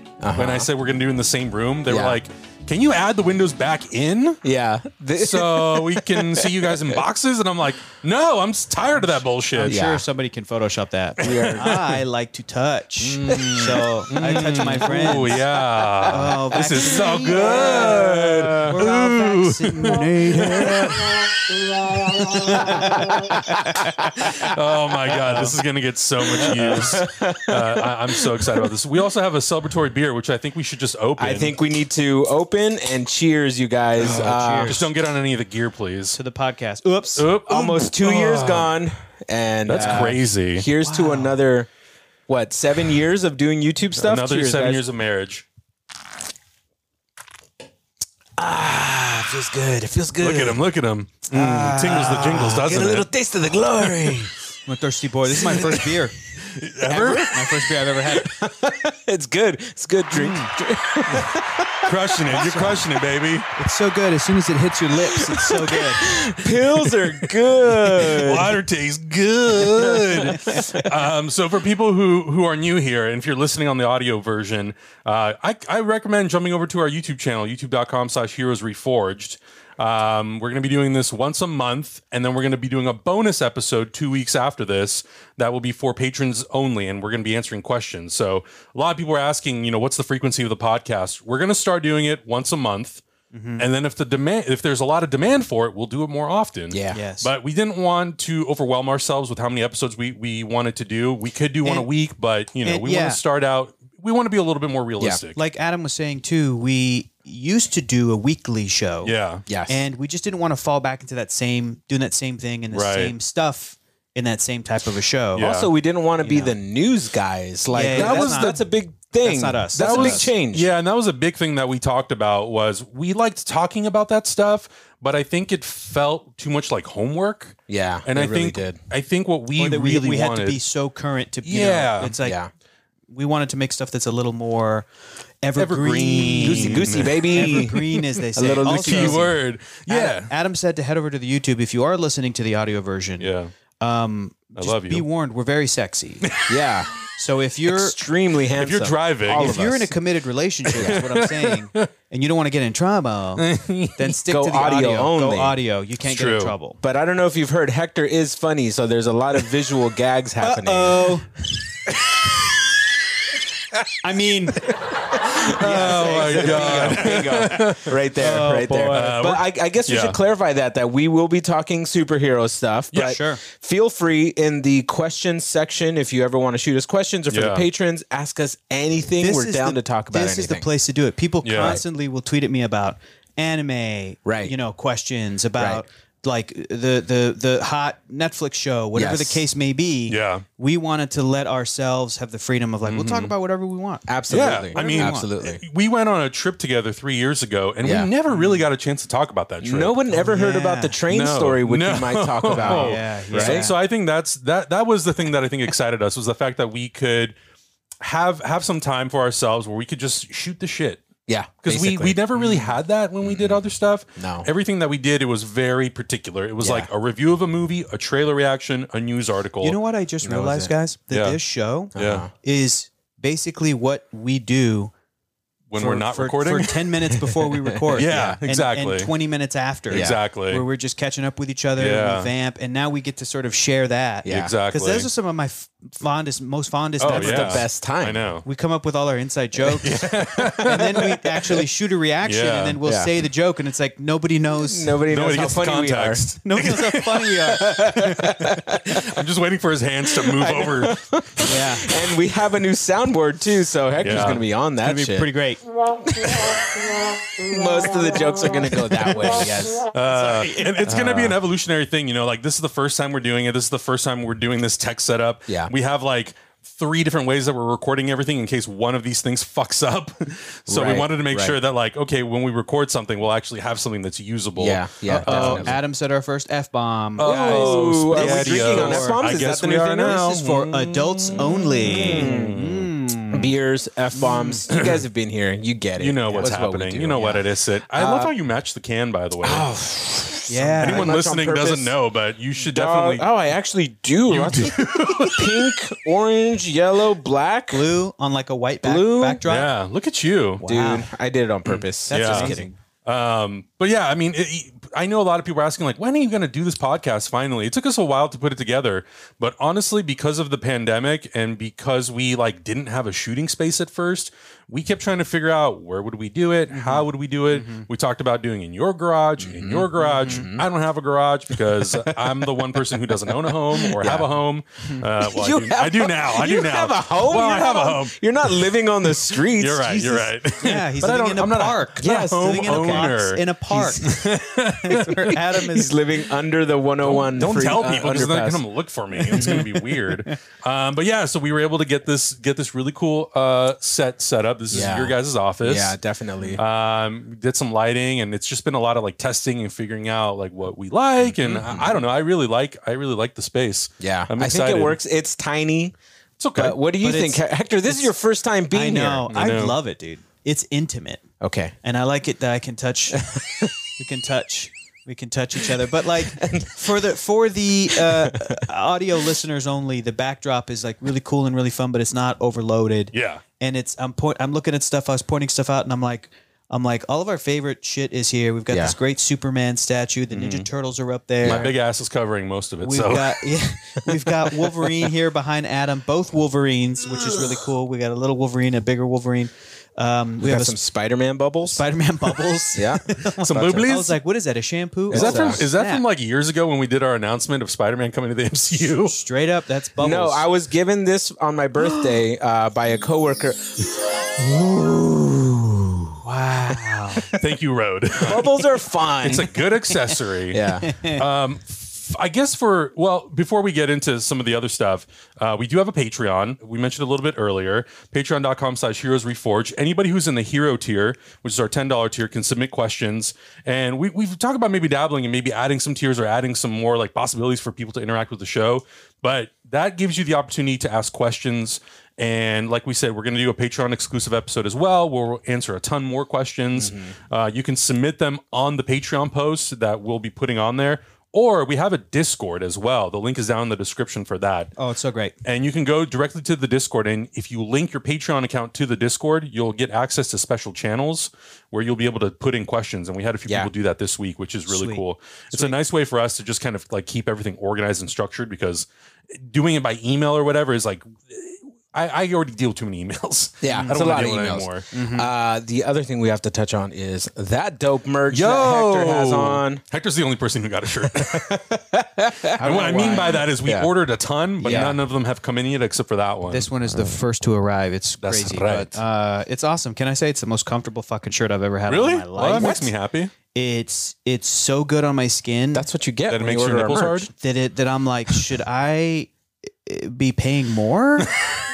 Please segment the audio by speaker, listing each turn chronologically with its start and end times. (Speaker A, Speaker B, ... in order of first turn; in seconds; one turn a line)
Speaker A: 0.2-0.7
Speaker B: 0.4-4.4
Speaker A: 1.9-2.2
Speaker A: 4.4-7.0
Speaker B: 5.2-9.8
Speaker C: 9.5-15.4
Speaker A: 9.7-10.0
Speaker A: 11.2-11.8
Speaker B: 11.2-11.8
Speaker B: 13.0-21.2
Speaker A: 13.3-16.1
Speaker C: 16.0-21.0
Speaker A: 17.2-18.8
Speaker A: 21.9-24.5
Speaker C: 22.2-24.3
Speaker B: 24.2-31.6
Speaker A: 25.1-25.5
Speaker A: 26.3-28.7
Speaker C: 26.4-26.9
Speaker A: 31.2-34.9
Speaker C: 34.0-34.9
Speaker B: 34.0-36.2
Speaker C: 36.1-37.3
Speaker B: 37.2-38.7
Speaker A: 37.5-41.7
Speaker B: 39.7-40.7
Speaker C: 40.8-41.4
Speaker A: 42.3-44.8
Speaker B: 44.0-45.5
Speaker A: 48.4-50.6
Speaker B: 50.2-53.1
Speaker C: 51.3-52.6
Speaker A: 51.7-54.3
Speaker C: 54.7-56.2
Speaker A: 55.3-56.0
Speaker B: 56.5-57.3
Speaker A: 56.9-62.8
Speaker C: 57.2-58.4
Speaker C: 60.1-60.5
Speaker B: 61.9-63.5
Speaker C: 62.4-62.8
Speaker C: 63.5-66.5
Speaker A: 65.2-68.6
Speaker B: 67.7-93.0
Speaker A: 69.6-70.8
Speaker C: 70.3-70.6
Speaker C: 93.3-93.7
Speaker B: 93.6-105.4
Speaker A: 96.7-97.0
Speaker C: 96.9-97.3
Speaker C: 101.6-101.9
Speaker C: 102.6-103.2
Speaker C: 105.3-109.1
Speaker B: 109.0-109.4
Speaker A: 109.5-109.8
Speaker C: 109.7-115.5
Speaker B: 112.7-113.1
Speaker B: 115.3-115.7
Speaker A: 115.4-120.7
Speaker C: 116.2-116.6
Speaker C: 117.7-118.6
Speaker B: 117.9-118.6
Speaker C: 119.2-120.3
Speaker B: 119.8-130.6
Speaker A: 127.7-128.8
Speaker C: 129.6-132.4
Speaker B: 131.4-132.2
Speaker A: 132.2-132.5
Speaker C: 133.1-134.9
Speaker C: 135.4-143.3
Speaker B: 135.6-137.8
Speaker A: 136.4-139.3
Speaker B: 138.6-140.3
Speaker B: 143.2-143.5
Speaker C: 143.8-146.3
Speaker B: 144.6-145.1
Speaker A: 146.5-146.9
Speaker C: 147.2-148.0
Speaker A: 147.7-149.9
Speaker B: 148.6-149.6
Speaker C: 149.4-156.8
Speaker B: 150.7-151.9
Speaker A: 150.8-151.1
Speaker B: 153.4-154.1
Speaker A: 154.3-155.6
Speaker B: 156.0-156.5
Speaker A: 156.8-161.2
Speaker C: 160.4-161.3
Speaker C: 164.0-169.2
Speaker A: 165.1-180.7
Speaker B: 165.2-170.2
Speaker C: 172.9-173.4
Speaker B: 177.3-177.6
Speaker C: 179.2-195.3
Speaker B: 181.4-181.8
Speaker A: 184.2-184.5
Speaker A: 185.6-185.8
Speaker A: 188.9-189.4
Speaker B: 190.1-190.4
Speaker B: 192.9-193.3
Speaker A: 194.1-195.6
Speaker B: 194.3-200.0
Speaker A: 197.8-198.1
Speaker C: 198.3-198.7
Speaker A: 199.6-203.7
Speaker C: 200.1-201.0
Speaker B: 201.1-207.4
Speaker C: 202.5-203.8
Speaker B: 208.0-211.1
Speaker A: 211.3-212.2
Speaker B: 211.6-219.8
Speaker C: 212.3-212.8
Speaker A: 213.2-213.6
Speaker A: 214.2-214.5
Speaker A: 216.6-216.9
Speaker C: 219.6-224.9
Speaker A: 220.2-220.7
Speaker B: 221.1-221.4
Speaker B: 221.9-222.3
Speaker A: 221.9-222.3
Speaker B: 225.7-226.9
Speaker C: 225.8-237.7
Speaker A: 227.2-228.4
Speaker B: 227.9-229.1
Speaker B: 229.9-230.6
Speaker A: 229.9-230.2
Speaker B: 231.8-232.3
Speaker A: 234.2-234.5
Speaker B: 234.3-235.1
Speaker B: 237.0-238.4
Speaker A: 237.0-238.2
Speaker C: 238.4-245.0
Speaker B: 239.8-240.9
Speaker A: 240.5-241.2
Speaker B: 242.3-242.8
Speaker A: 242.8-243.1
Speaker A: 244.6-246.3
Speaker B: 245.1-247.3
Speaker C: 246.4-248.0
Speaker A: 247.5-249.2
Speaker B: 248.0-251.0
Speaker A: 250.1-255.3
Speaker C: 251.4-251.9
Speaker B: 254.0-254.5
Speaker C: 254.8-255.6
Speaker A: 256.1-259.9
Speaker B: 259.9-275.8
Speaker C: 260.1-261.0
Speaker A: 260.9-261.4
Speaker A: 270.7-271.6
Speaker A: 274.6-275.8
Speaker C: 275.1-279.3
Speaker B: 277.2-282.9
Speaker A: 277.2-280.4
Speaker C: 280.0-283.5
Speaker A: 281.3-282.6
Speaker A: 283.3-288.3
Speaker C: 284.1-284.6
Speaker B: 284.7-285.0
Speaker B: 286.0-289.7
Speaker A: 289.4-292.0
Speaker C: 290.5-291.1
Speaker B: 290.8-293.2
Speaker A: 292.6-297.9
Speaker B: 294.3-295.9
Speaker C: 297.7-299.7
Speaker A: 298.8-299.4
Speaker B: 299.5-300.6
Speaker C: 300.6-301.1
Speaker A: 300.6-302.7
Speaker B: 301.7-328.2
Speaker C: 302.1-302.8
Speaker C: 316.7-317.9
Speaker A: 319.4-320.6
Speaker A: 321.5-324.3
Speaker A: 325.2-330.3
Speaker B: 329.4-335.2
Speaker C: 330.6-336.0
Speaker A: 332.0-333.1
Speaker A: 335.5-338.6
Speaker B: 337.0-345.9
Speaker C: 339.2-340.4
Speaker A: 339.3-339.8
Speaker A: 344.7-346.6
Speaker B: 346.6-355.0
Speaker A: 351.2-351.9
Speaker A: 354.0-355.9
Speaker B: 356.4-356.8
Speaker A: 356.6-359.3
Speaker C: 357.0-358.1
Speaker C: 358.7-361.2
Speaker B: 359.3-359.8
Speaker A: 361.4-361.8
Speaker C: 361.8-363.3
Speaker A: 363.2-363.7
Speaker C: 364.0-381.7
Speaker A: 366.2-367.1
Speaker A: 367.9-368.6
Speaker B: 373.1-373.4
Speaker A: 378.7-378.9
Speaker B: 380.3-380.7
Speaker A: 381.4-381.7
Speaker B: 381.4-383.5
Speaker C: 382.8-390.8
Speaker A: 390.4-391.8
Speaker C: 391.7-396.0
Speaker A: 392.7-393.8
Speaker B: 393.4-394.1
Speaker A: 395.1-395.6
Speaker B: 395.1-399.1
Speaker C: 399.1-400.5
Speaker A: 400.0-407.2
Speaker C: 406.2-407.4
Speaker B: 407.3-408.5
Speaker A: 408.2-409.5
Speaker B: 409.2-444.7
Speaker C: 409.9-410.2
Speaker A: 410.5-410.9
Speaker C: 410.8-411.2
Speaker A: 436.8-437.1
Speaker C: 444.8-445.3
Speaker B: 445.4-458.9
Speaker C: 454.7-455.8
Speaker B: 459.4-464.9
Speaker A: 463.6-469.8
Speaker C: 463.7-464.2
Speaker C: 464.9-465.3
Speaker B: 468.3-471.5
Speaker A: 471.0-473.9
Speaker C: 472.6-473.4
Speaker B: 472.6-476.7
Speaker C: 474.6-474.9
Speaker A: 474.6-475.0
Speaker C: 476.5-482.8
Speaker B: 478.2-478.9
Speaker B: 481.9-483.3
Speaker A: 482.6-482.9
Speaker C: 483.5-485.9
Speaker A: 485.7-487.3
Speaker B: 486.3-487.3
Speaker C: 487.4-489.3
Speaker C: 489.8-491.3